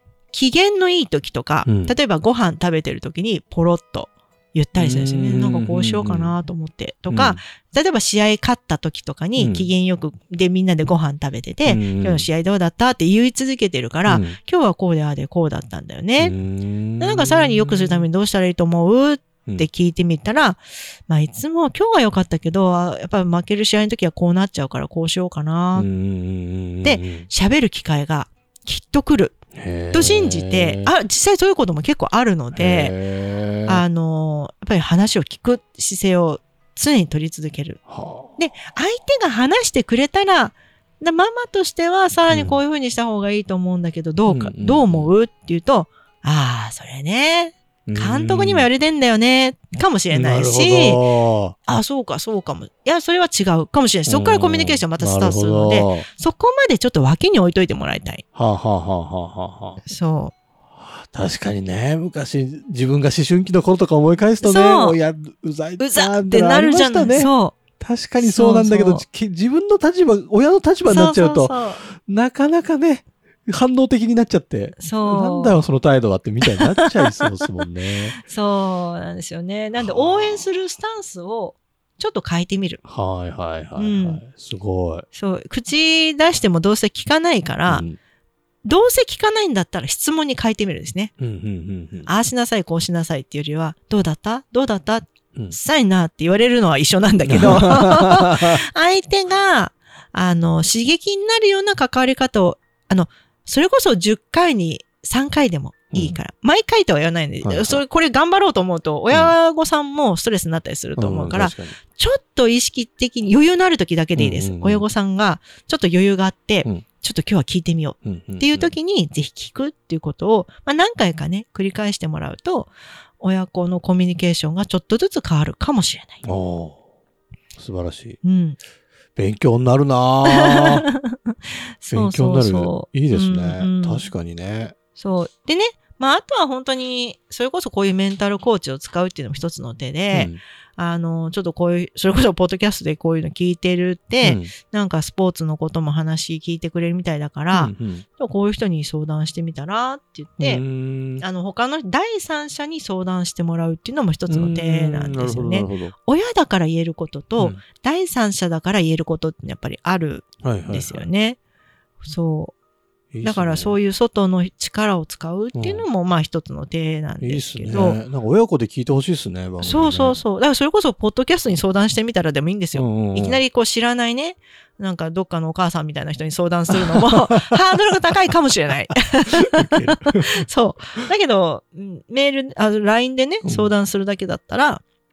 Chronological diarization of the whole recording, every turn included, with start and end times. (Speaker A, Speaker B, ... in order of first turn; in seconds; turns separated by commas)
Speaker A: 0.3-16.4, Speaker B: 1.6-1.9, Speaker B: 4.8-6.3, Speaker B: 7.1-7.4, Speaker B: 9.4-9.7, Speaker B: 11.7-12.3, Speaker B: 14.1-14.4, Speaker B: 16.2-18.1, Speaker A: 17.0-25.9, Speaker B: 25.8-27.3, Speaker A: 26.8-29.4, Speaker B: 29.6-30.9, Speaker A: 29.9-33.0, Speaker B: 32.5-33.8, Speaker A: 33.6-37.8, Speaker B: 37.9-38.4, Speaker A: 38.4-51.0, Speaker B: 42.3-42.6, Speaker B: 44.3-45.1, Speaker B: 47.9-48.7, Speaker B: 50.1-51.6, Speaker A: 51.7-58.2, Speaker B: 54.1-56.1, Speaker B: 58.4-59.8, Speaker A: 59.9-60.3, Speaker B: 61.0-71.5, Speaker A: 64.4-65.0, Speaker A: 65.8-67.6, Speaker A: 68.2-69.0, Speaker A: 70.9-71.8, Speaker B: 72.1-78.2, Speaker A: 74.8-75.7, Speaker A: 76.5-77.2, Speaker A: 78.2-82.8, Speaker B: 79.8-80.3, Speaker B: 82.8-85.1, Speaker A: 83.8-84.2, Speaker A: 85.1-87.9, Speaker B: 87.7-88.0, Speaker A: 88.6-91.1, Speaker B: 91.2-92.1, Speaker A: 92.1-126.2, Speaker B: 97.3-98.6, Speaker B: 107.4-107.8, Speaker B: 111.0-111.8, Speaker B: 114.2-114.8, Speaker B: 118.0-118.7, Speaker B: 126.2-126.8, Speaker B: 127.6-128.2, Speaker A: 128.2-128.6, Speaker B: 129.2-130.9, Speaker A: 130.3-134.1, Speaker B: 131.9-134.7, Speaker A: 135.0-150.6, Speaker B: 140.1-140.4, Speaker B: 144.2-144.5, Speaker B: 147.5-148.1, Speaker B: 150.4-151.2, Speaker A: 151.2-161.4, Speaker B: 154.3-155.9, Speaker B: 160.4-161.1, Speaker A: 162.0-162.5, Speaker B: 163.1-163.8, Speaker A: 163.2-168.0, Speaker B: 165.6-165.8, Speaker B: 167.2-170.2, Speaker A: 169.6-184.8, Speaker B: 172.7-173.4, Speaker B: 176.7-177.6, Speaker B: 179.4-180.4, Speaker B: 183.4-183.7